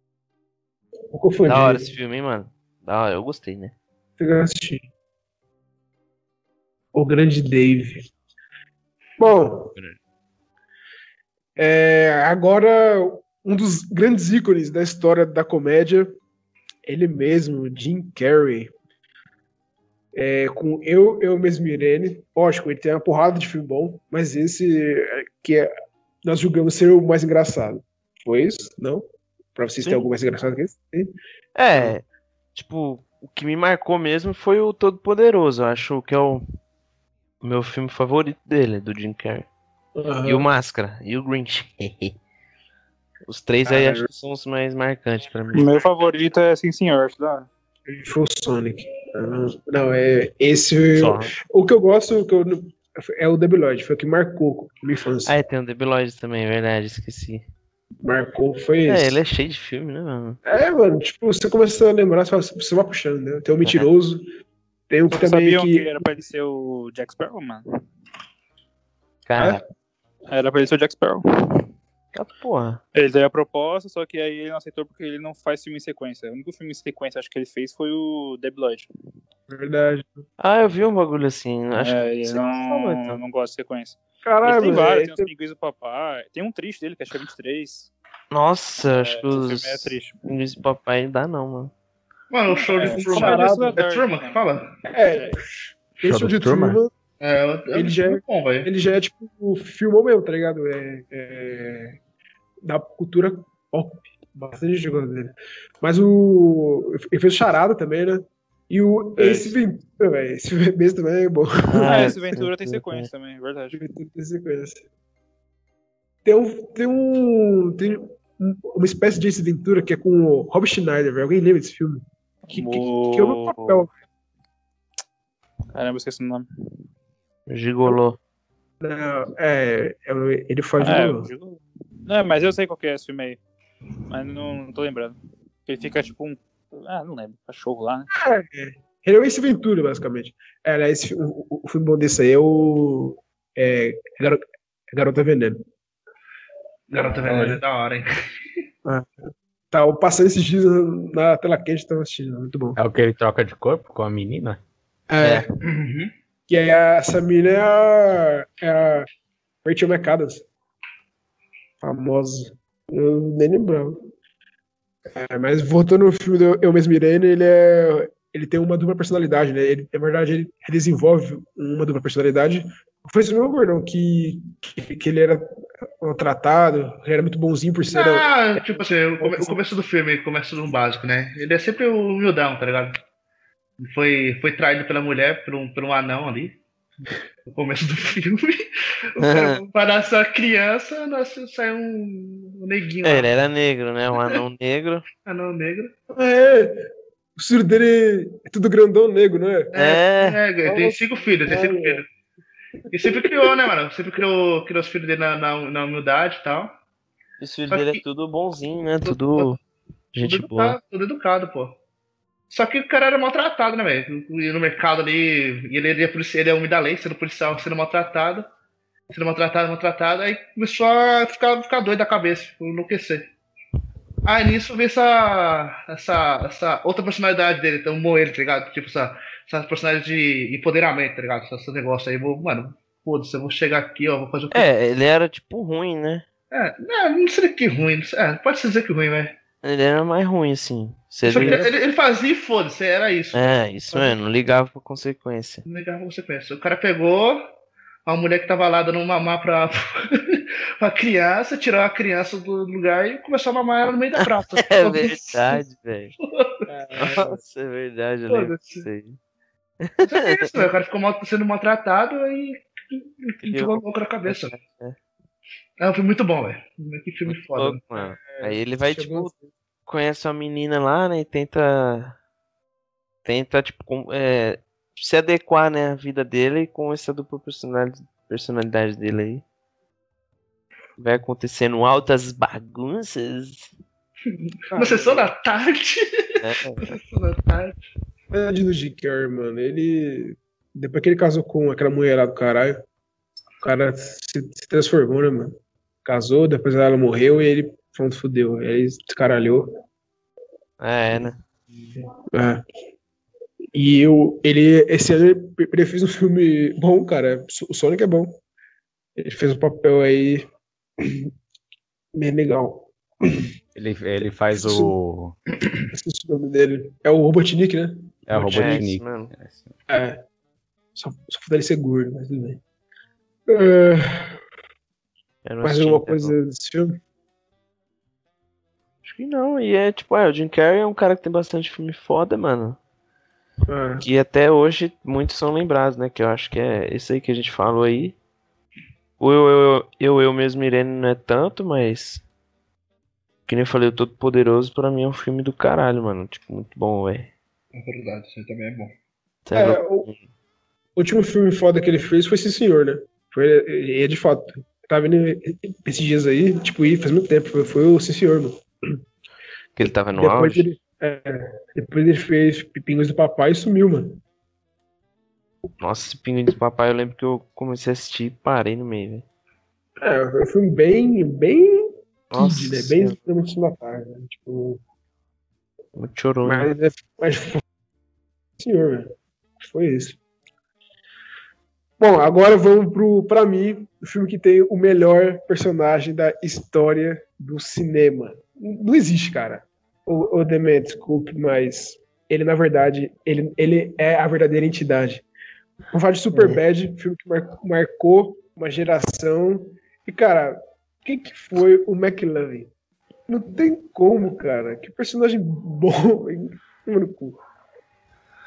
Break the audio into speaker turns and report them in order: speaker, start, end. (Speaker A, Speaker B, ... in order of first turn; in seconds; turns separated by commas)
Speaker A: 1.1-1.9, Speaker B: 1.5-3.7, Speaker A: 4.2-4.9, Speaker A: 6.9-8.1, Speaker A: 9.2-9.7, Speaker A: 11.6-16.2, Speaker A: 16.9-18.7, Speaker A: 20.1-25.7, Speaker A: 26.2-31.1, Speaker B: 31.6-32.0, Speaker B: 32.5-36.4, Speaker B: 37.4-39.5, Speaker A: 40.0-40.5, Speaker B: 40.2-42.1, Speaker B: 43.3-45.7, Speaker A: 43.6-44.1, Speaker C: 45.5-47.5, Speaker A: 47.9-55.4, Speaker D: 51.0-51.3, Speaker B: 55.3-57.5, Speaker A: 58.0-59.2, Speaker B: 58.9-60.4, Speaker A: 60.5-64.3, Speaker A: 64.9-66.0, Speaker C: 65.1-67.6, Speaker B: 69.3-69.6, Speaker A: 69.4-69.6, Speaker C: 70.3-71.6, Speaker B: 72.1-72.8, Speaker C: 73.0-78.9, Speaker A: 79.5-80.2, Speaker B: 80.4-83.2, Speaker C: 81.8-87.9, Speaker A: 84.2-85.3, Speaker B: 88.3-91.7, Speaker C: 88.9-90.2, Speaker E: 92.3-94.7, Speaker C: 92.5-94.4, Speaker A: 92.8-93.8, Speaker A: 94.8-95.4, Speaker A: 96.0-96.9, Speaker D: 96.0-96.8, Speaker E: 97.2-98.7, Speaker A: 97.7-102.0, Speaker A: 102.6-112.2, Speaker C: 109.2-109.5, Speaker B: 111.7-113.1, Speaker C: 111.8-113.8, Speaker A: 113.7-114.8, Speaker A: 116.2-123.9, Speaker C: 122.5-123.9, Speaker C: 125.7-126.5, Speaker B: 127.5-128.2, Speaker A: 128.8-131.3, Speaker C: 130.8-133.4, Speaker C: 134.1-138.1, Speaker A: 138.1-144.4, Speaker A: 144.9-145.6, Speaker A: 146.9-147.6, Speaker E: 146.9-148.1, Speaker A: 148.8-152.8, Speaker D: 152.8-154.6, Speaker A: 155.1-155.5, Speaker B: 155.2-155.5, Speaker E: 155.6-156.1, Speaker A: 156.5-159.1, Speaker A: 159.6-160.4, Speaker A: 161.8-164.0, Speaker A: 165.1-175.5, Speaker A: 176.0-179.6, Speaker E: 177.9-182.9, Speaker E: 183.8-186.6, Speaker E: 187.5-188.6, Speaker E: 189.2-193.3, Speaker B: 189.2-189.6, Speaker B: 193.0-195.1, Speaker E: 195.2-195.9, Speaker A: 196.1-199.7, Speaker E: 199.7-202.1, Speaker B: 199.8-200.4, Speaker A: 200.6-202.0, Speaker E: 202.9-206.8, Speaker A: 202.9-203.6, Speaker B: 207.4-209.6, Speaker E: 207.7-208.0, Speaker E: 209.1-209.6, Speaker B: 210.1-210.8, Speaker E: 210.2-211.8, Speaker E: 212.5-218.5, Speaker E: 219.1-223.3, Speaker E: 224.2-234.7, Speaker B: 234.5-236.2, Speaker E: 236.5-239.4, Speaker B: 239.6-241.7, Speaker E: 241.2-243.6, Speaker A: 241.3-241.7, Speaker B: 243.3-245.6, Speaker E: 245.7-247.4, Speaker E: 248.1-255.6, Speaker B: 254.2-256.1, Speaker E: 256.2-256.6, Speaker A: 256.7-257.4, Speaker B: 257.0-259.2, Speaker E: 258.3-258.9, Speaker B: 259.8-260.7, Speaker E: 260.0-264.5, Speaker B: 263.4-265.0, Speaker E: 265.8-267.8, Speaker B: 267.3-269.3, Speaker A: 268.0-269.5, Speaker B: 269.9-272.2, Speaker B: 273.2-279.4, Speaker B: 281.0-283.7, Speaker E: 284.3-286.0, Speaker A: 284.7-285.3, Speaker B: 286.4-287.0, Speaker E: 286.9-287.8, Speaker A: 288.3-292.8, Speaker A: 293.6-299.7, Speaker B: 300.8-301.4, Speaker A: 302.3-302.6, Speaker A: 303.7-308.4, Speaker A: 309.2-310.4, Speaker A: 311.0-311.3, Speaker A: 312.1-313.5, Speaker D: 313.8-315.4, Speaker A: 314.5-314.9, Speaker A: 315.9-318.8, Speaker D: 318.3-319.7, Speaker B: 318.4-319.3, Speaker A: 319.9-320.2, Speaker A: 320.9-322.6, Speaker A: 323.5-324.4, Speaker B: 325.4-326.4, Speaker A: 325.6-327.0, Speaker B: 329.0-332.8, Speaker A: 333.7-334.1, Speaker B: 334.0-338.2, Speaker B: 339.2-342.2, Speaker B: 343.5-347.3, Speaker E: 347.7-348.9, Speaker B: 349.5-350.2, Speaker A: 349.5-350.1, Speaker A: 351.0-359.0, Speaker B: 359.8-360.7, Speaker A: 360.1-364.2, Speaker B: 365.8-369.2, Speaker A: 370.0-374.8, Speaker B: 372.3-373.2, Speaker B: 376.0-376.7, Speaker A: 376.4-377.6, Speaker A: 378.6-380.2, Speaker A: 382.0-395.2, Speaker A: 395.9-402.7, Speaker B: 396.3-396.6, Speaker A: 403.3-407.4